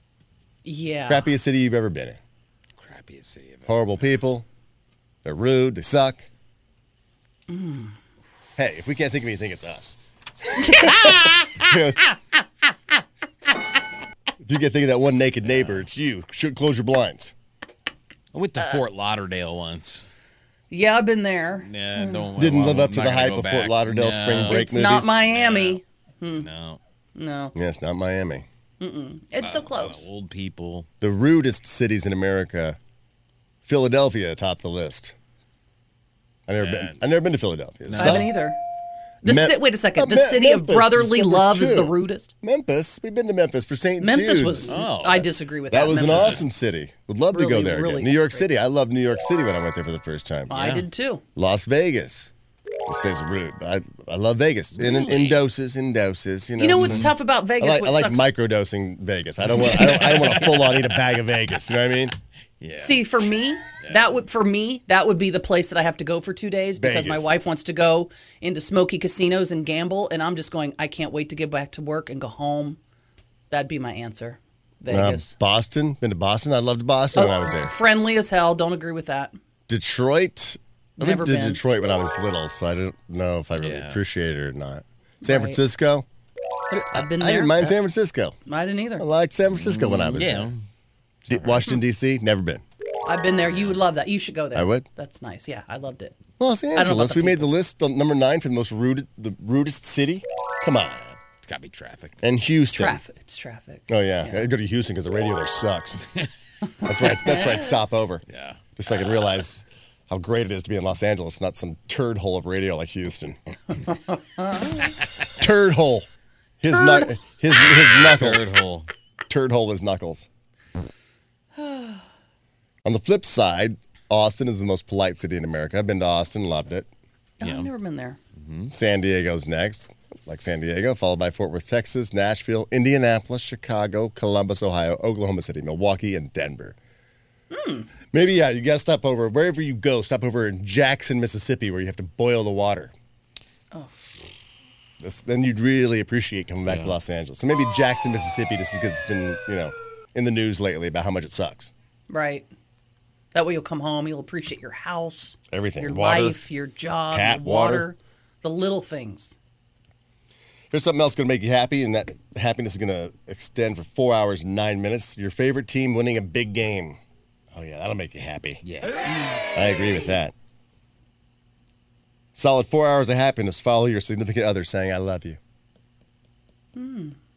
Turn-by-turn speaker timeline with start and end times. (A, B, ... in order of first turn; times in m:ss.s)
0:00.6-0:01.3 A
0:01.1-0:02.2 B
0:02.8-0:03.7 C
0:03.7-0:04.4 B
0:05.2-0:06.2 B
0:07.5-0:07.9 A
0:08.6-0:10.0 B
0:10.5-0:12.0 B
0:10.6-0:11.7 A
0:14.4-0:17.3 B
0:15.4-0:15.8 C
0:18.3-0:20.0 C
0:20.7-0:22.3 A
0:21.6-0:24.6 C
0:22.4-0:25.2 B
0:24.5-0:26.4 A
0:25.2-0:25.8 C
0:26.4-0:26.8 C
0:27.2-0:27.5 A
0:27.5-0:28.4 B
0:28.8-0:30.1 A
0:29.4-0:30.9 C
0:31.0-0:32.8 B
0:33.6-0:35.1 B
0:36.5-0:38.3 B
0:36.6-0:37.0 C
0:37.9-0:38.3 C
0:38.0-0:38.6 A
0:39.2-0:42.3 A
0:39.2-0:44.8 B
0:44.0-0:46.4 A
0:44.7-0:45.3 C
0:45.7-0:50.5 B
0:46.0-0:46.4 C
0:47.3-0:48.5 A
0:50.5-0:51.2 A
0:50.5-0:50.8 C
0:51.4-0:52.3 B
0:52.9-1:02.2 B
0:54.8-0:55.4 C
0:56.6-0:58.3 A
0:56.8-0:57.1 C
0:59.6-1:00.9 C
1:02.6-1:03.0 C
1:02.8-1:12.8 A
1:03.8-1:04.1 C
1:06.8-1:07.3 B
1:13.5-1:15.3 A
1:14.9-1:17.7 B
1:17.1-1:19.4 A
1:19.7-1:26.0 B
1:21.0-1:21.6 A
1:23.6-1:24.0 C
1:25.2-1:25.6 A
1:26.7-1:28.4 B
1:26.9-1:27.8 A
1:28.4-1:29.0 A
1:29.0-1:30.5 B
1:29.5-1:30.6 C
1:31.3-1:32.6 B
1:33.0-1:36.2 A
1:34.5-1:34.8 B
1:36.4-1:41.2 B
1:36.7-1:37.5 A
1:41.4-1:42.2 C
1:42.2-1:43.0 B
1:42.7-1:44.5 A
1:43.9-1:46.0 B
1:46.7-1:47.7 A
1:46.8-1:48.2 B
1:48.3-1:49.4 C
1:48.8-1:53.4 B
1:53.9-1:54.9 A
1:55.4-1:56.1 B
1:56.6-1:58.5 B
1:56.7-1:57.2 A
1:57.6-1:58.9 C
1:59.3-2:00.3 B
2:01.6-2:02.0 A
2:02.8-2:06.9 B
2:07.4-2:08.2 A
2:07.4-2:07.7 C
2:08.4-2:08.7 C
2:08.7-2:16.8 B
2:17.5-2:17.9 A
2:18.1-2:22.9 B
2:25.0-2:31.7 B
2:26.6-2:26.9 C
2:32.1-2:32.5 A
2:33.3-2:39.4 A
2:35.5-2:36.4 B
2:37.1-2:37.8 B
2:40.7-2:47.0 B
2:47.5-2:48.6 B
2:48.6-2:49.1 C
2:49.0-2:49.4 A
2:49.5-2:50.3 B
2:52.3-2:55.4 B
2:56.8-2:57.2 A